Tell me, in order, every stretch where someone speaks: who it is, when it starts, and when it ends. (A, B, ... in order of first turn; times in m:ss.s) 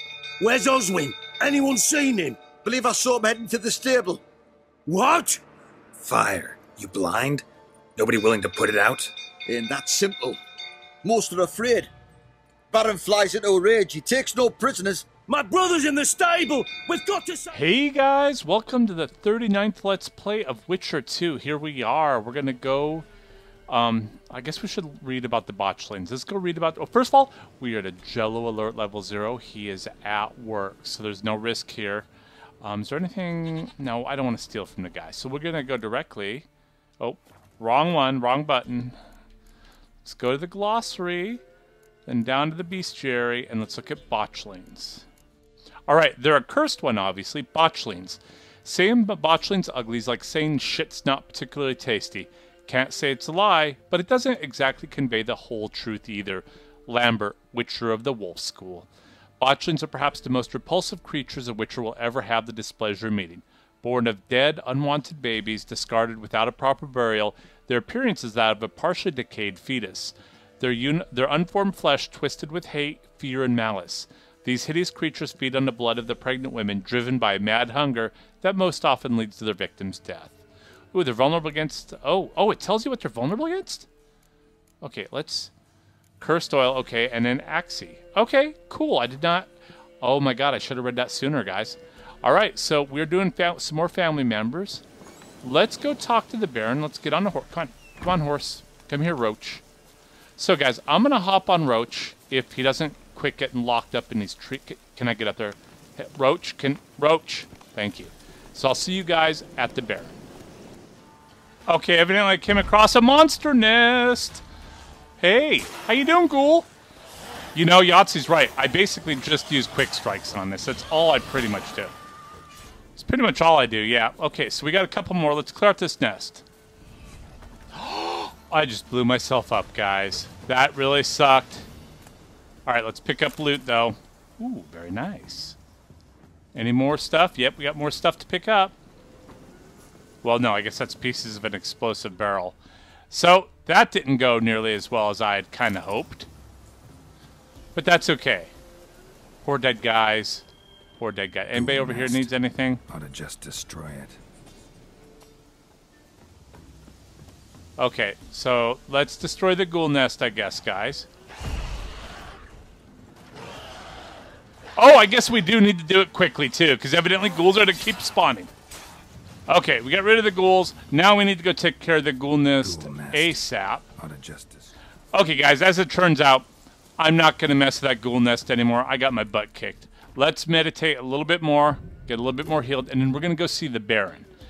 0:00.4-0:02.4 A
0:02.6-0:04.2 B
0:04.8-0:05.4 A
0:06.0-0:07.4 C
0:08.0-0:09.1 C
0:09.5-0:10.4 B
0:11.0-0:11.9 B
0:12.7-0:15.0 B
0:15.3-0:17.6 A
0:17.5-0:23.0 D
0:23.7-0:32.1 D
0:32.6-0:36.5 D
0:37.0-0:39.0 D
0:40.0-0:41.4 D
0:42.0-0:45.0 D
0:45.9-0:58.9 D
0:59.4-1:20.4 D
1:20.9-1:23.9 D
1:24.8-1:25.5 D
1:26.2-1:34.8 D
1:35.4-1:39.6 D
1:40.4-1:50.1 D
1:51.7-1:54.4 D
1:55.2-1:56.7 D
1:57.5-2:01.9 D
2:03.0-2:06.4 D
2:07.7-2:11.7 D
2:12.6-2:15.6 D
2:16.5-2:18.7 D
2:20.2-2:22.6 D
2:23.1-2:26.3 D
2:27.7-2:28.5 D
2:29.4-2:30.4 D
2:31.0-2:32.8 D
2:31.5-2:32.3 C
2:32.9-2:34.2 C
2:37.8-2:41.1 D
2:44.8-2:48.5 D
2:49.5-2:53.8 D
2:52.6-2:53.4 C
2:53.9-2:54.7 C
2:55.1-3:04.2 D